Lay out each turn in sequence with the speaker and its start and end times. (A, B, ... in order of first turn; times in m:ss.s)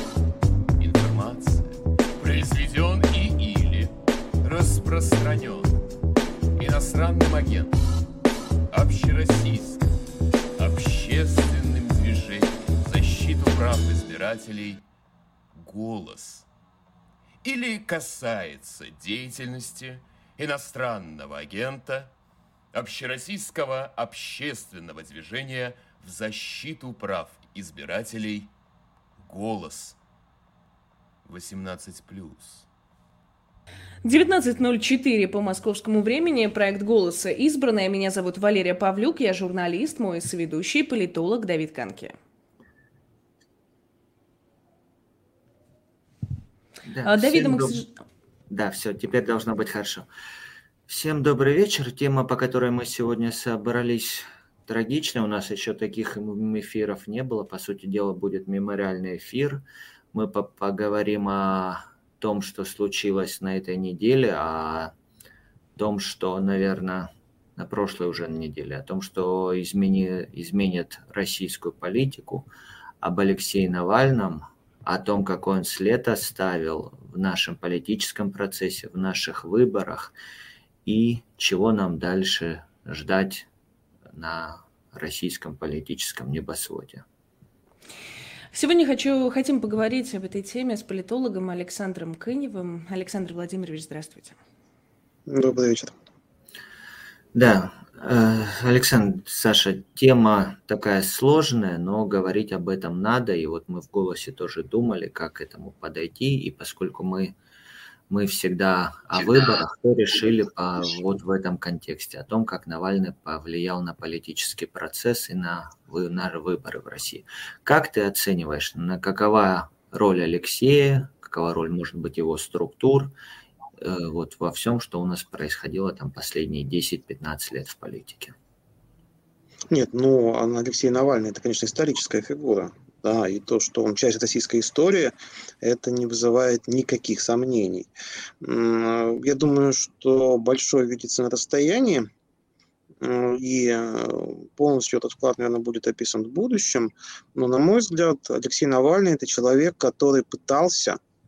0:00.8-0:05.7 A
0:06.6-0:07.8 A
0:08.7-0:09.9 A
0:10.6-0:14.8 A
0:15.5-0:16.5 A
0:17.4-0:22.1 A
0:22.7-0:28.5 A
0:29.2-0:30.0 A
0:31.3-0:32.7 A
0:34.0-0:42.2 B
0:46.9-0:47.8 C
0:47.1-0:47.9 B
0:48.5-0:50.1 C
0:50.9-1:04.9 C
1:05.8-1:12.5 C
1:13.0-1:20.1 C
1:20.9-1:23.5 C
1:24.1-1:27.0 C
1:28.5-1:34.4 B
1:35.3-1:36.0 D
1:37.3-1:47.3 C
1:48.1-2:03.1 C
2:03.8-2:08.4 C
2:09.7-2:17.9 D
2:18.4-2:22.1 D
2:23.0-2:31.0 D